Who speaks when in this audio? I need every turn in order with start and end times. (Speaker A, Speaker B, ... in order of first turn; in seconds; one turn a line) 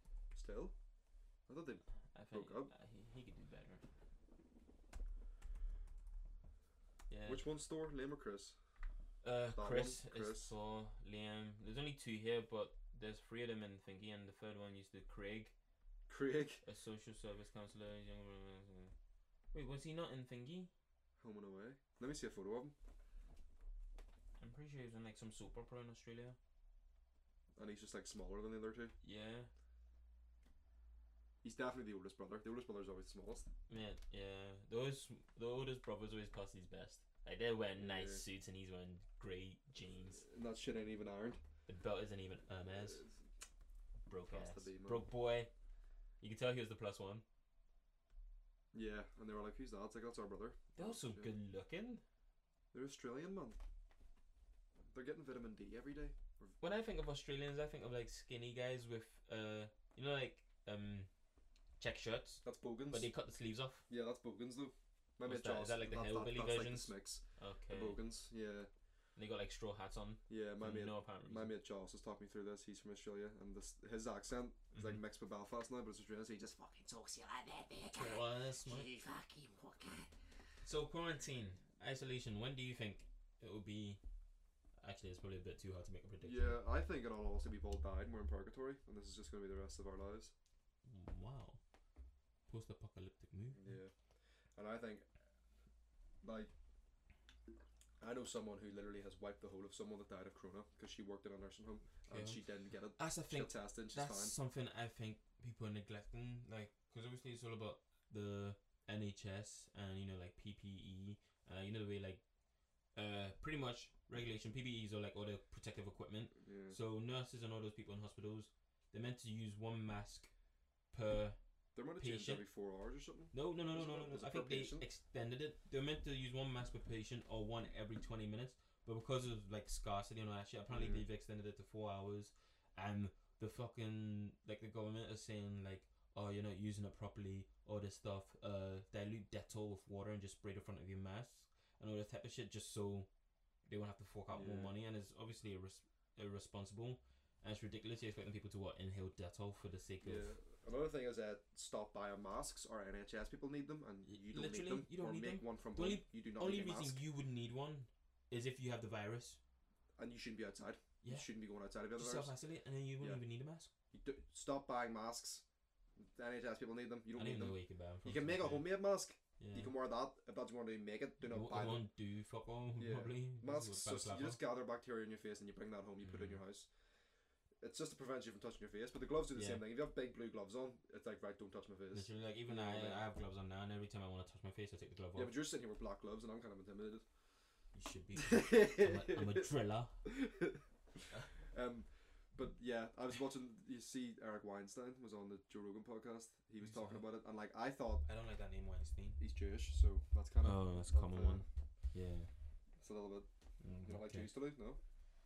Speaker A: 0.3-0.7
Speaker A: 1.5-2.7
Speaker B: 2.1-3.8
Speaker B: 7.1-7.4
Speaker A: 7.2-8.6
Speaker B: 9.2-15.5
Speaker A: 9.5-10.5
Speaker A: 16.1-16.6
Speaker B: 16.6-18.9
Speaker B: 19.5-20.7
Speaker A: 21.2-22.7
Speaker B: 24.4-26.4
Speaker A: 27.6-28.9
Speaker B: 29.0-29.5
Speaker A: 31.4-33.5
Speaker B: 33.7-40.2
Speaker A: 37.8-38.2
Speaker A: 40.2-41.4
Speaker B: 41.7-43.0
Speaker A: 42.7-43.2
Speaker B: 44.0-45.5
Speaker A: 44.3-45.0
Speaker B: 46.2-47.2
Speaker A: 48.7-51.3
Speaker B: 50.7-52.0
Speaker A: 52.7-53.6
Speaker A: 54.9-56.5
Speaker B: 56.6-61.1
Speaker B: 61.8-63.9
Speaker A: 62.4-63.1
Speaker A: 63.9-68.7
Speaker B: 65.2-68.0
Speaker B: 69.2-71.5
Speaker A: 70.3-76.8
Speaker B: 74.7-75.0
Speaker C: 76.8-80.1
Speaker B: 77.9-78.9
Speaker B: 80.6-84.0
Speaker B: 84.8-86.6
Speaker A: 86.2-90.3
Speaker B: 90.8-91.6
Speaker B: 92.5-93.8
Speaker A: 93.5-93.9
Speaker A: 94.5-95.0
Speaker A: 96.2-96.5
Speaker A: 98.0-104.3
Speaker B: 102.1-102.4
Speaker B: 103.0-112.2
Speaker B: 112.9-120.3
Speaker A: 116.4-116.8
Speaker B: 120.9-121.4
Speaker A: 121.7-124.8
Speaker B: 122.0-122.4
Speaker B: 123.3-143.1
Speaker A: 130.7-131.1
Speaker B: 143.7-150.3
Speaker A: 144.3-144.7
Speaker A: 150.0-157.0
Speaker B: 154.0-159.4
Speaker A: 160.0-162.3
Speaker B: 161.0-161.3
Speaker B: 161.9-163.7
Speaker A: 163.9-165.4
Speaker A: 166.0-171.8
Speaker B: 167.1-168.8
Speaker B: 169.4-169.7
Speaker B: 171.2-174.4
Speaker A: 172.8-176.7
Speaker B: 176.0-176.4
Speaker A: 177.6-183.0
Speaker B: 179.3-179.6
Speaker B: 181.9-185.3
Speaker A: 185.1-187.0
Speaker B: 187.7-190.0
Speaker A: 188.2-189.5
Speaker A: 190.0-198.1
Speaker B: 196.6-197.0
Speaker B: 198.1-199.2
Speaker A: 199.2-201.4
Speaker B: 200.4-202.3
Speaker A: 202.8-203.3
Speaker B: 203.6-204.3
Speaker A: 203.8-204.8